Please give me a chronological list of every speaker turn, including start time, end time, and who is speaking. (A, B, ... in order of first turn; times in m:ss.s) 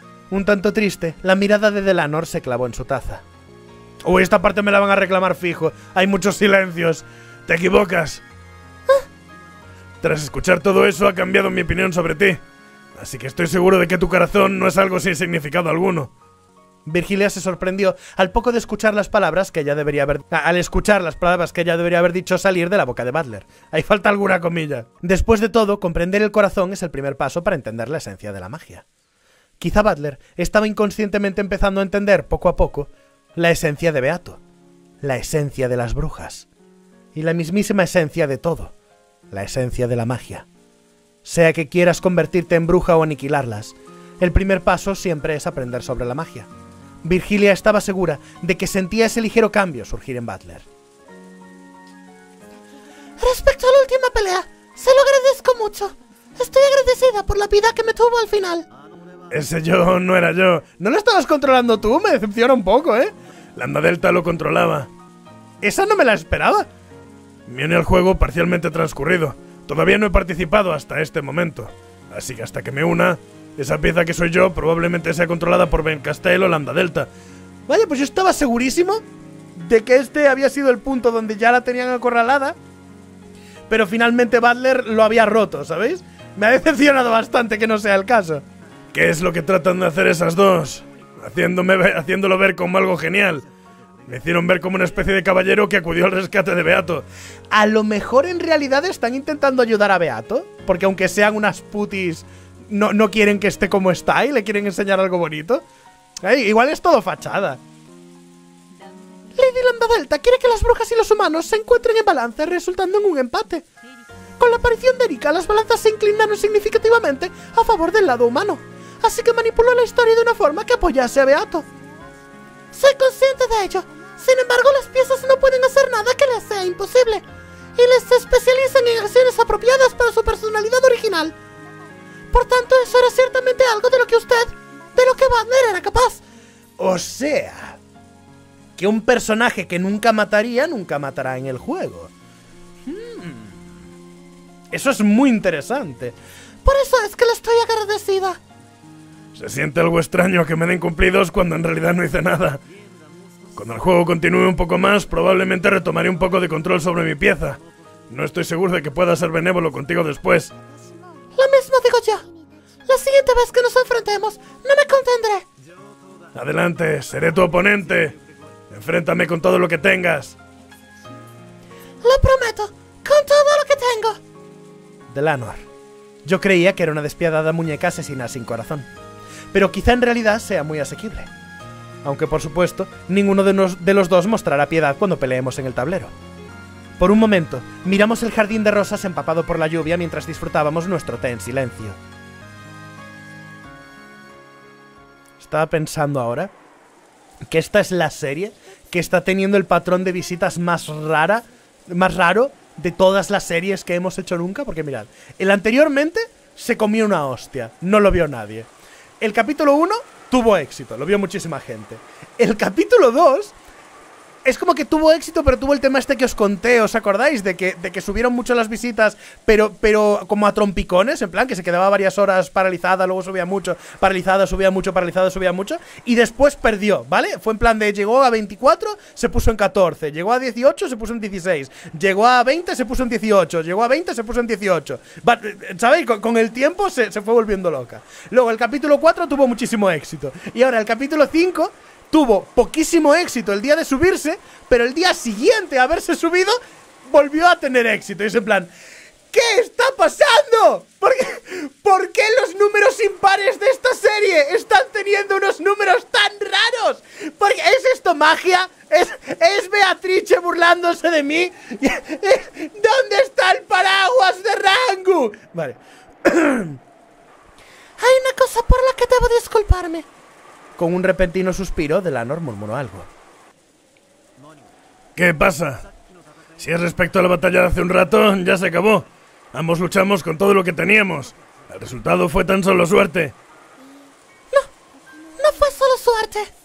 0:00.3-0:03.2 A
0:04.0-0:07.0 A
0:07.5-0:08.2 B
0:10.0-0:12.4 B
0:13.0-0:16.1 B
0:16.8-0:28.8 A
0:29.6-0:34.4 A
0:35.0-0:36.5 A
0:37.2-0:38.7 A
0:39.3-0:40.5 A
0:41.2-0:46.5 A
0:47.0-0:50.7 A
0:53.2-0:58.6 C
0:59.3-1:00.8 B
1:00.8-1:03.1 A
1:03.6-1:04.9 B
1:05.6-1:06.7 A
1:07.5-1:17.1 B
1:17.7-1:19.0 A
1:19.6-1:22.6 A
1:23.7-1:28.4 A
1:28.9-1:33.5 B
1:34.1-1:37.0 B
1:37.5-1:45.6 A
1:46.2-1:47.6 A
1:49.4-1:50.4 C
1:49.6-1:53.6 A
1:54.4-1:56.7 C
1:54.4-1:56.1 A
1:56.6-2:01.6 A
2:02.7-2:07.2 C
2:07.8-2:11.3 C
2:12.3-2:16.2 C
2:16.8-2:17.8 A
2:18.8-2:22.1 A
2:22.9-2:23.6 A
2:24.7-2:26.2 A
2:26.6-2:28.4 C
2:29.4-2:32.6 B
2:33.6-2:40.5 B
2:41.4-2:42.2 C
2:42.9-2:45.4 C
2:46.3-2:48.2 B
2:48.7-2:50.4 B
2:52.0-2:54.2 C
2:55.1-2:55.6 A
2:56.2-2:58.9 A
2:59.5-3:01.3 A
3:02.0-3:06.1 A
3:07.0-3:12.0 A
3:15.4-3:16.5 A
3:17.5-3:28.7 A
3:29.2-3:33.6 A
3:34.4-4:08.7 A
4:09.3-4:26.8 A
4:28.0-4:30.0 C
4:30.8-4:33.1 A
4:35.2-4:35.9 B
4:36.6-4:43.4 B
4:45.4-4:46.5 C